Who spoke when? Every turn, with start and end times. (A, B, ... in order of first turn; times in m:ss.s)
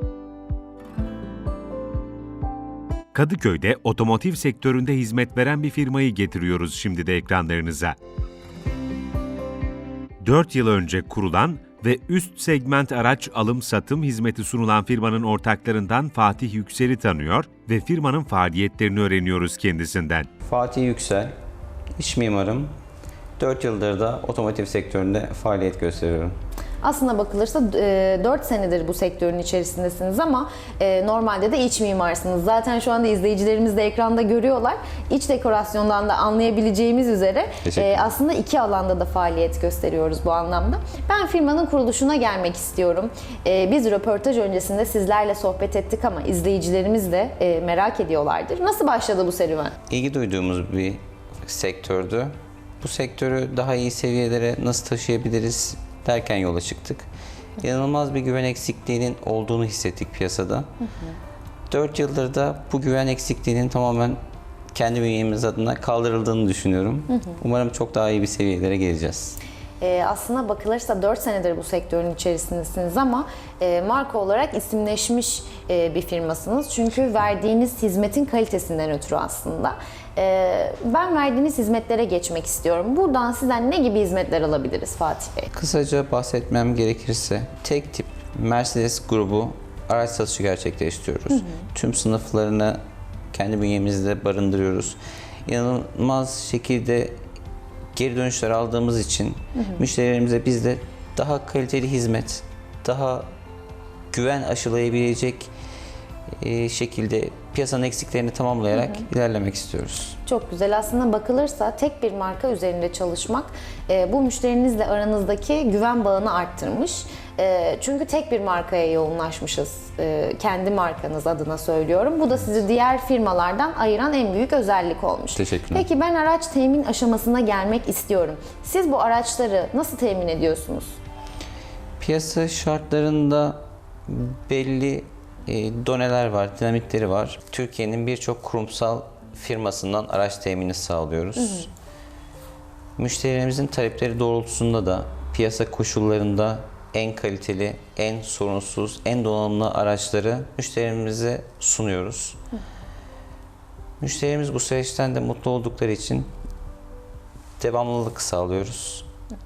0:03.1-0:07.9 A
0:10.2-0:20.3 A
0:20.4-0:21.3 B
0:22.0-0:22.7 B
0:23.4-0:26.3 B
0:26.8-0:49.7 C
0:37.6-0:38.0 B
0:49.9-0:57.0 B
0:57.6-1:00.7 B
1:01.7-1:04.2 B
1:04.7-1:09.4 B
1:09.8-1:25.5 C
1:25.5-1:32.8 B
1:33.3-1:37.2 B
1:37.9-1:43.2 B
1:39.6-1:39.8 C
1:44.1-1:45.5 B
1:46.4-1:50.1 B
1:48.7-1:49.0 C
1:50.2-2:10.9 C
2:05.3-2:05.8 B
2:12.0-2:21.7 B
2:23.0-2:32.4 B
2:34.0-2:36.3 B
2:37.6-2:39.0 B